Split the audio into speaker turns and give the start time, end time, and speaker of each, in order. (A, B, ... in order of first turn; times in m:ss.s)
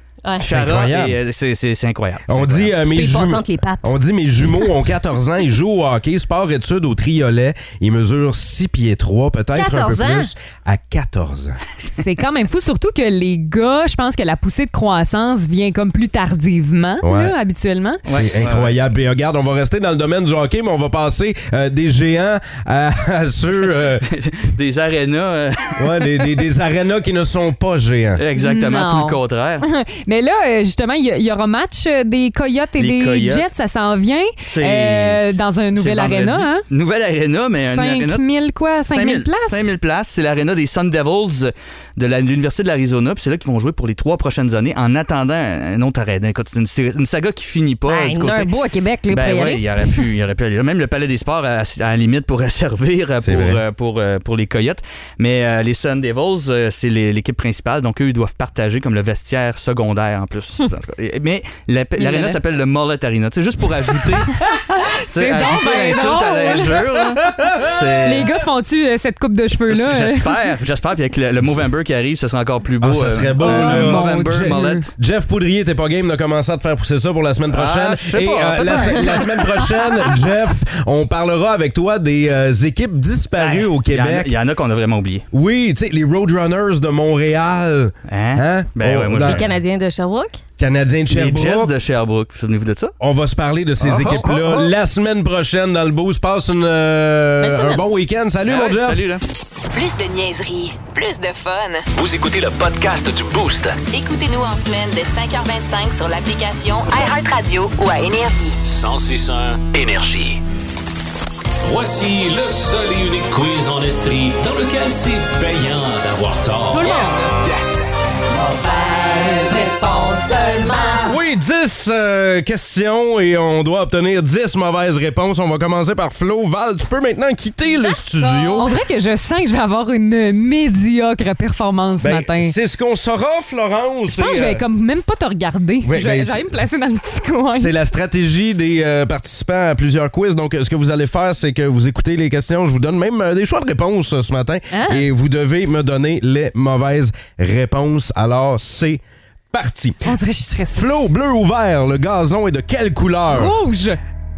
0:00.4-0:01.2 A
0:00.4-0:02.8 B
0:02.3-0:11.6 A
0:02.8-0:03.9 C
0:09.5-0:10.3 C
0:11.9-0:18.0 D
0:17.0-0:17.4 A
0:18.1-0:18.8 B
0:18.1-0:24.0 A
0:24.1-0:26.2 B
0:25.8-0:28.2 A
0:28.2-0:29.6 B
0:28.4-0:36.6 D
0:32.8-0:33.4 B
0:34.5-0:38.2 B
0:37.7-0:39.6 D
0:38.9-0:48.6 B
0:47.9-0:50.0 C
0:49.1-1:04.5 B
0:53.2-0:53.6 A
1:02.0-1:02.4 D
1:04.7-1:07.0 D
1:05.1-1:08.4 B
1:08.0-1:10.3 D
1:09.7-1:14.9 B
1:12.8-1:24.3 A
1:13.4-1:14.9 D
1:17.5-1:19.3 B
1:23.4-1:25.2 B
1:25.3-1:29.4 A
1:28.1-1:29.5 B
1:29.2-1:30.4 C
1:30.6-1:31.7 A
1:31.1-1:32.9 B
1:33.0-1:39.1 A
1:33.8-1:34.7 B
1:37.4-1:37.8 C
1:38.4-1:39.2 B
1:39.7-1:41.9 E
1:42.0-1:43.8 F
1:43.9-1:48.6 E
1:48.6-1:50.4 F
1:51.6-1:57.9 G
1:56.8-1:57.1 D
1:58.3-2:01.1 H
2:01.1-2:08.7 A
2:08.3-2:08.6 C
2:08.5-2:12.6 D
2:12.0-2:14.6 A
2:14.1-2:17.7 D
2:15.8-2:16.6 A
2:17.5-2:29.0 A
2:24.7-2:25.1 D
2:29.5-2:30.2 A
2:30.1-2:30.9 D
2:30.7-2:33.6 A
2:33.3-2:34.0 D